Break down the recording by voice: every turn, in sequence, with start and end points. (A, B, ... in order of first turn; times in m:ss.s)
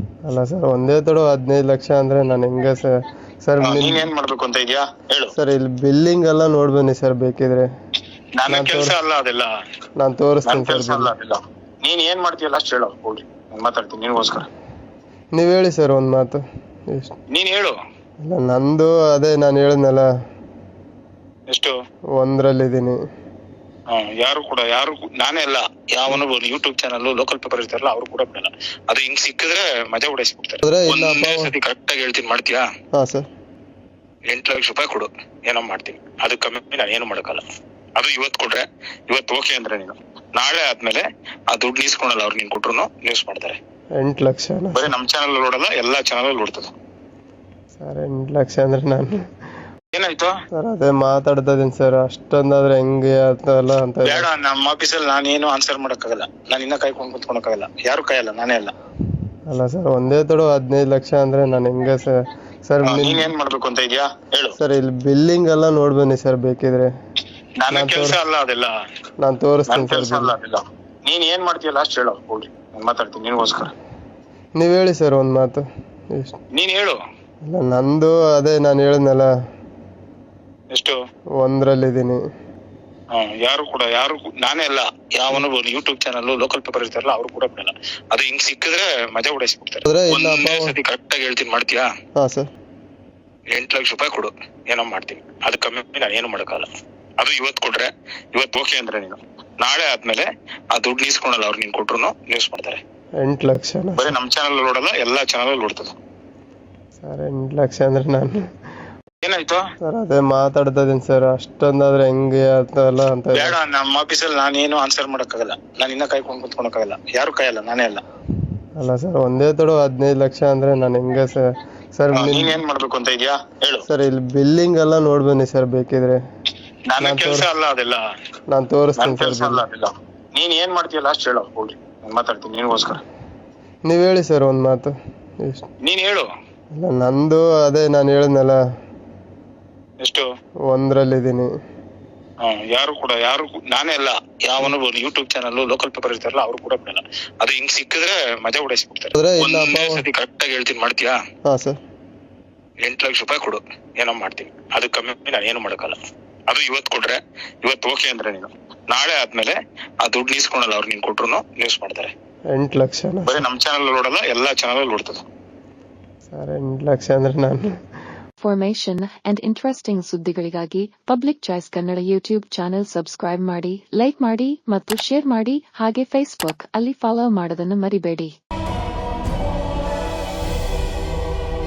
0:00.3-0:04.1 A
0:03.6-0:05.3 B
0:05.3-0:07.7 A
0:08.4-0:09.5 B
0:08.5-0:09.0 A
0:10.0-0:11.1 A
0:10.5-0:14.5 B
0:15.4-0:16.4 A
0:17.3-0:17.7 B
0:18.2-0:20.1 A
0:22.2-0:23.0 A
0:23.9-0:32.6 B
0:30.6-0:31.5 A
0:33.0-0:33.3 A
0:34.3-0:37.4 B
0:38.0-0:43.6 B
0:44.0-0:44.9 A
0:44.7-0:46.7 B
0:47.8-0:49.2 A
0:49.9-0:50.3 B
0:50.5-0:54.3 A
0:54.0-0:58.7 B
0:59.5-1:02.2 A
1:02.7-1:03.3 A
1:02.8-1:04.6 B
1:04.6-1:06.9 A
1:07.6-1:08.7 B
1:07.7-1:08.2 A
1:09.2-1:10.3 A
1:09.7-1:13.7 B
1:14.6-1:16.4 A
1:16.6-1:17.0 B
1:17.5-1:19.3 A
1:21.4-1:22.2 A
1:23.1-1:31.8 B
1:29.9-1:30.8 A
1:32.2-1:32.5 A
1:33.5-1:36.7 B
1:37.2-1:42.8 B
1:43.2-1:44.1 A
1:44.0-1:45.9 B
1:47.0-1:48.4 A
1:49.2-1:49.6 B
1:49.8-1:53.6 A
1:53.4-1:58.0 B
1:58.8-2:01.4 A
2:02.0-2:02.6 A
2:02.1-2:03.8 B
2:03.9-2:06.2 A
2:06.9-2:08.0 B
2:07.0-2:07.5 A
2:08.5-2:09.6 A
2:09.0-2:13.0 B
2:13.9-2:15.7 A
2:15.8-2:16.3 B
2:16.8-2:18.6 A
2:20.7-2:21.5 A
2:22.4-2:31.2 B
2:29.2-2:30.0 A
2:31.5-2:31.8 A
2:32.8-2:36.0 B
2:36.5-2:42.1 B
2:42.5-2:43.4 A
2:43.3-2:45.2 B
2:46.3-2:47.7 A
2:48.4-2:58.3 C